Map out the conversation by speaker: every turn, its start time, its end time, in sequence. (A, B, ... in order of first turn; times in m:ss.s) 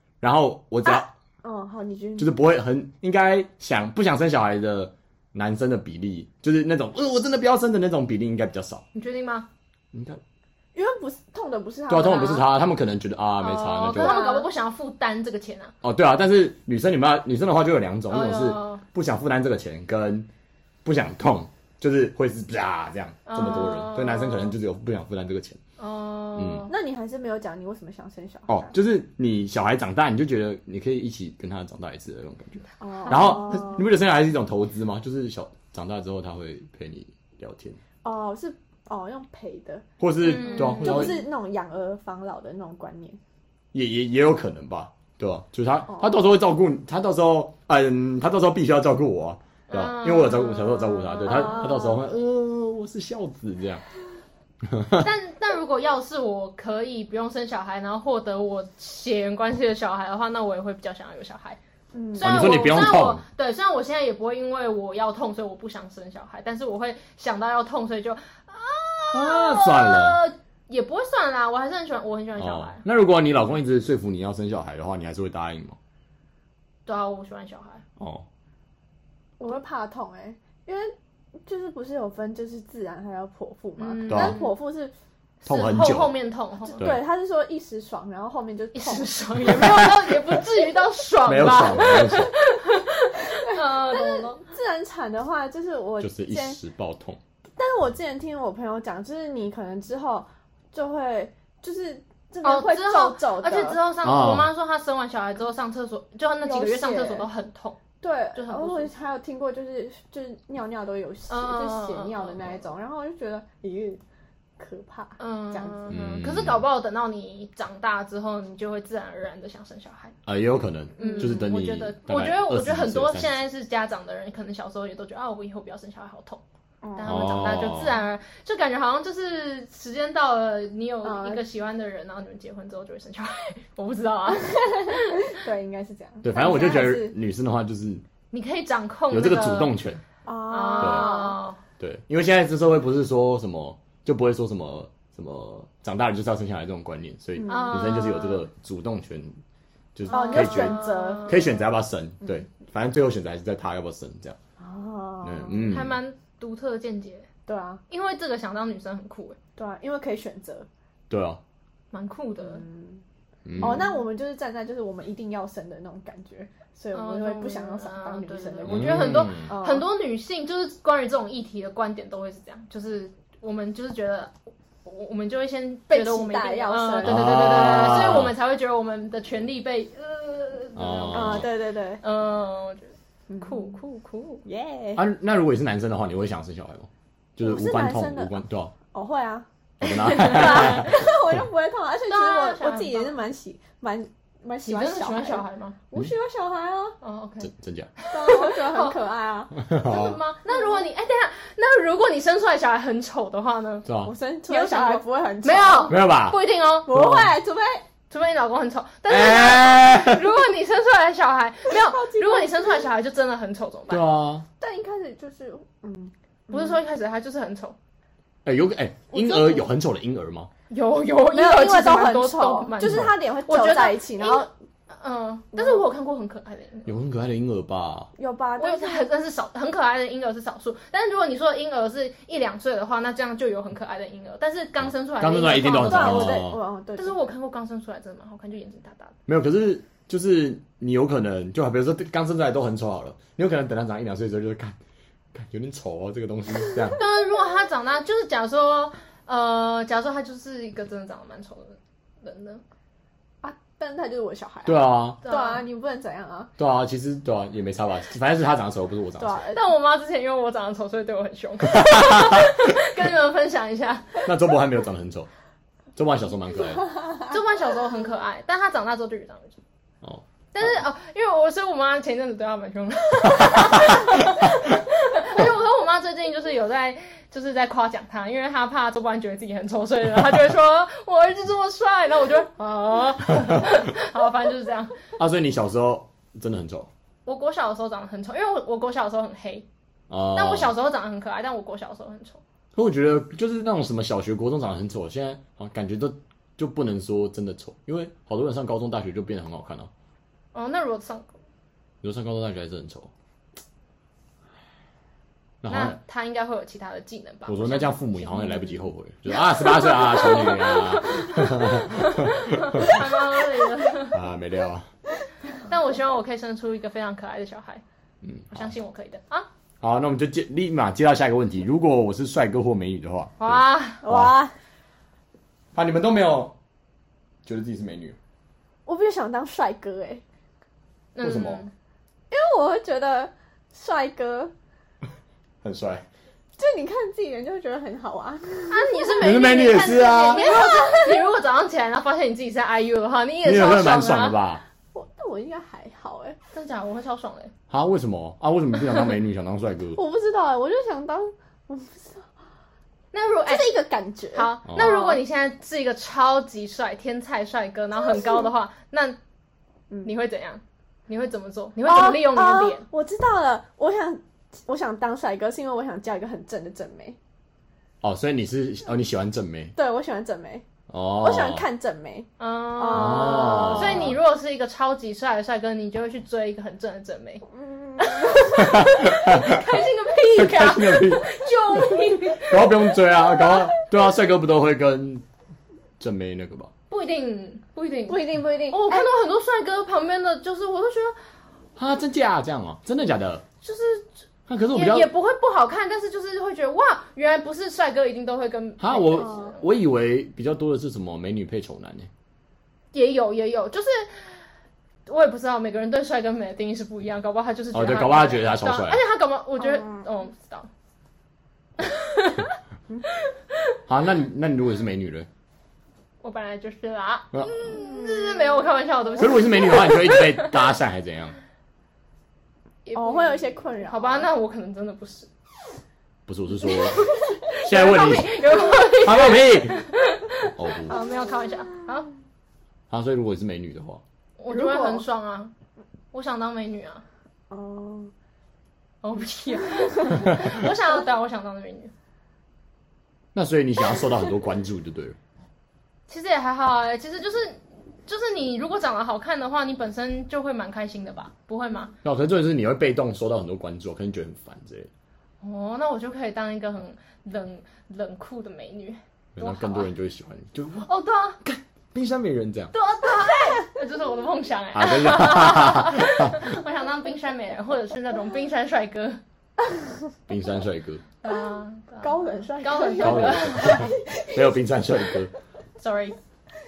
0:00.2-0:01.1 A
0:00.8-0:02.4 B
0:02.2-0:08.8 A
0:08.9-0:09.5 C
0:09.9-0:10.2 A
0:10.7-0:12.5 B
0:11.9-0:14.3 A
0:13.4-0:15.7 C
0:14.0-0:14.5 B
0:15.8-0:20.3 A
0:18.1-0:18.8 C
0:20.8-0:25.6 A
0:23.3-0:24.5 C
0:25.8-0:26.7 C
0:26.4-0:26.7 A
0:26.7-0:28.7 B
0:28.5-0:37.8 A
0:32.8-0:33.9 B
0:38.0-0:39.8 B
0:40.0-0:41.2 A
0:40.2-0:41.2 C
0:40.4-0:43.2 B
0:43.7-0:53.8 A
0:45.9-0:46.3 B
0:49.7-0:51.6 C
0:51.2-0:52.1 B
0:54.6-0:55.1 A
0:55.0-1:01.6 C
1:01.9-1:02.7 B
1:02.1-1:12.8 C
1:02.2-1:03.2 A
1:09.1-1:10.2 A
1:12.4-1:15.8 A
1:16.8-1:17.8 C
1:18.0-1:18.2 A
1:19.4-1:20.9 B
1:21.4-1:24.9 B
1:23.8-1:24.5 C
1:24.1-1:24.4 A
1:25.4-1:26.8 C
1:25.4-1:26.1 A
1:26.7-1:29.1 B
1:26.8-1:27.0 A
1:28.7-1:34.4 C
1:29.4-1:30.3 A
1:31.2-1:32.3 A
1:33.2-1:36.6 B
1:36.0-1:37.2 A
1:37.6-1:43.8 B
1:42.4-1:47.8 C
1:44.0-1:44.5 A
1:46.4-1:47.3 B
1:48.0-1:54.0 B
1:48.3-1:48.9 C
1:51.3-1:52.6 C
1:54.6-1:55.9 B
1:55.2-2:00.2 C
1:55.9-1:56.6 A
2:00.2-2:03.3 A
2:01.0-2:01.5 B
2:01.0-2:06.4 C
2:06.8-2:07.4 B
2:06.9-2:15.4 C
2:07.0-2:08.0 A
2:11.0-2:11.4 B
2:14.4-2:17.2 B
2:16.2-2:18.0 A
2:18.3-2:19.7 C
2:19.1-2:20.0 A
2:20.2-2:21.4 B
2:20.5-2:21.6 C
2:20.8-2:21.1 A
2:21.8-2:29.4 A
2:27.4-2:27.9 B
2:27.4-2:28.4 C
2:29.9-2:34.4 A
2:30.1-2:31.4 C
2:30.1-2:31.4 B
2:34.6-2:35.7 B
2:35.2-2:36.0 A
2:35.6-2:37.3 C
2:37.5-2:37.8 B
2:37.9-2:39.4 C
2:39.6-2:40.7 B
2:41.1-2:41.4 A
2:41.9-2:42.6 C
2:42.4-2:43.0 B
2:43.4-2:43.9 A
2:43.6-2:49.8 B
2:46.9-3:01.5 C
2:48.6-2:49.5 A
2:55.9-2:58.3 B
2:57.0-2:58.3 A
3:00.8-3:01.5 A
3:01.1-3:02.0 B
3:02.0-3:04.4 C
3:03.3-3:03.8 B
3:04.4-3:05.0 B
3:05.0-3:08.7 A
3:07.4-3:08.4 B
3:08.9-3:09.5 B
3:09.8-3:11.3 A
3:10.0-3:10.9 C
3:10.0-3:17.0 B
3:12.1-3:13.2 C
3:14.6-3:15.8 C
3:17.0-3:19.0 C
3:17.4-3:17.9 A
3:18.1-3:19.5 B
3:19.6-3:20.2 A
3:19.7-3:23.8 C
3:23.8-3:24.1 A
3:24.0-3:26.0 B
3:24.5-3:27.0 C
3:25.9-3:27.3 A
3:26.8-3:27.8 B
3:28.1-3:34.1 C
3:29.1-3:30.2 A
3:31.7-3:32.9 B
3:33.9-3:34.4 A
3:34.6-3:36.8 B
3:36.5-3:37.8 C
3:38.4-3:40.5 A
3:39.1-3:39.7 B
3:40.7-3:47.0 C
3:41.3-3:44.5 B
3:42.8-3:43.1 A
3:45.5-3:45.8 B
3:46.8-3:48.1 A
3:48.2-3:49.1 B
3:48.6-3:59.1 C
3:55.2-3:56.6 A
3:55.8-3:57.3 B
3:59.3-4:04.8 A
4:05.3-4:07.0 A
4:06.9-4:12.6 C
4:13.4-4:16.5 B
4:14.6-4:15.2 A
4:15.2-4:15.6 C
4:16.6-4:19.4 A
4:19.2-4:19.7 B
4:19.5-4:24.2 C
4:21.7-4:22.5 A
4:24.2-4:25.3 A
4:26.0-4:26.9 A
4:27.2-4:29.6 C
4:30.5-4:45.0 C
4:45.2-4:46.9 A
4:47.2-4:49.6 C
4:50.1-4:50.7 A
4:50.3-4:52.4 C
4:52.8-4:59.9 A
5:00.5-5:01.4 C
5:02.0-5:03.1 A
5:05.6-5:06.0 A
5:05.7-5:08.8 C
5:07.5-5:13.0 A
5:09.4-5:14.2 C
5:14.1-5:14.9 A
5:15.6-5:17.8 C
5:18.2-5:18.7 A
5:18.5-5:19.5 C
5:19.8-5:24.3 A
5:23.4-5:24.0 C
5:24.0-5:24.6 B
5:25.7-5:26.5 A
5:27.4-5:28.2 A
5:28.8-5:30.2 B
5:31.2-5:31.7 C
5:31.2-5:31.6 A
5:32.3-5:34.5 B
5:35.6-5:36.0 A
5:36.6-5:39.3 B
5:38.7-5:44.4 C
5:39.2-5:40.5 A
5:40.2-5:41.3 B
5:43.4-5:44.6 A
5:44.9-5:46.4 B
5:46.5-5:47.5 C
5:47.7-5:50.0 A
5:49.9-5:52.3 B
5:53.1-5:53.7 C
5:53.4-5:55.2 B
5:54.3-5:59.2 C
5:54.7-5:55.0 A
5:58.1-5:58.5 B
6:00.0-6:02.8 C
6:01.8-6:07.2 B
6:08.0-6:09.7 A
6:09.8-6:10.6 B
6:10.9-6:11.6 A
6:11.2-6:14.1 B
6:12.4-6:17.4 C
6:12.9-6:14.2 A
6:17.5-6:18.8 B
6:18.0-6:23.6 C
6:18.5-6:19.8 A
6:20.4-6:21.2 A
6:22.4-6:25.2 A
6:26.0-6:26.7 A
6:26.9-6:31.2 C
6:28.1-6:29.1 B
6:31.8-6:33.4 A
6:33.6-6:34.2 C
6:34.5-6:35.1 A
6:34.7-6:39.6 C
6:38.8-6:42.1 A
6:39.2-6:39.5 B
6:42.9-6:44.4 C
6:45.0-6:50.7 C
6:47.7-6:49.0 A
6:49.6-6:50.0 B
6:51.8-6:52.5 C
6:53.2-6:53.7 C
6:53.9-6:55.3 A
6:56.2-7:00.5 C
6:57.6-6:58.7 B
6:59.2-7:01.4 A
7:02.8-7:05.3 C
7:02.9-7:04.3 B
7:06.3-7:09.8 A
7:06.7-7:12.1 C
7:10.5-7:11.0 A
7:12.9-7:14.0 A
7:14.4-7:15.5 C
7:14.5-7:15.0 B
7:16.1-7:17.0 C
7:17.5-7:18.1 B
7:19.0-7:21.9 C
7:23.3-7:25.2 A
7:26.1-7:31.9 C
7:32.0-7:34.9 A
7:35.4-7:39.9 C
7:39.4-7:40.9 A
7:40.8-7:41.4 C
7:41.4-7:42.7 A
7:42.7-7:49.2 C
7:44.7-7:46.5 A
7:50.3-7:51.0 A
7:51.2-7:53.9 C
7:52.0-7:54.6 B
7:53.0-7:55.3 A
7:55.8-7:56.2 C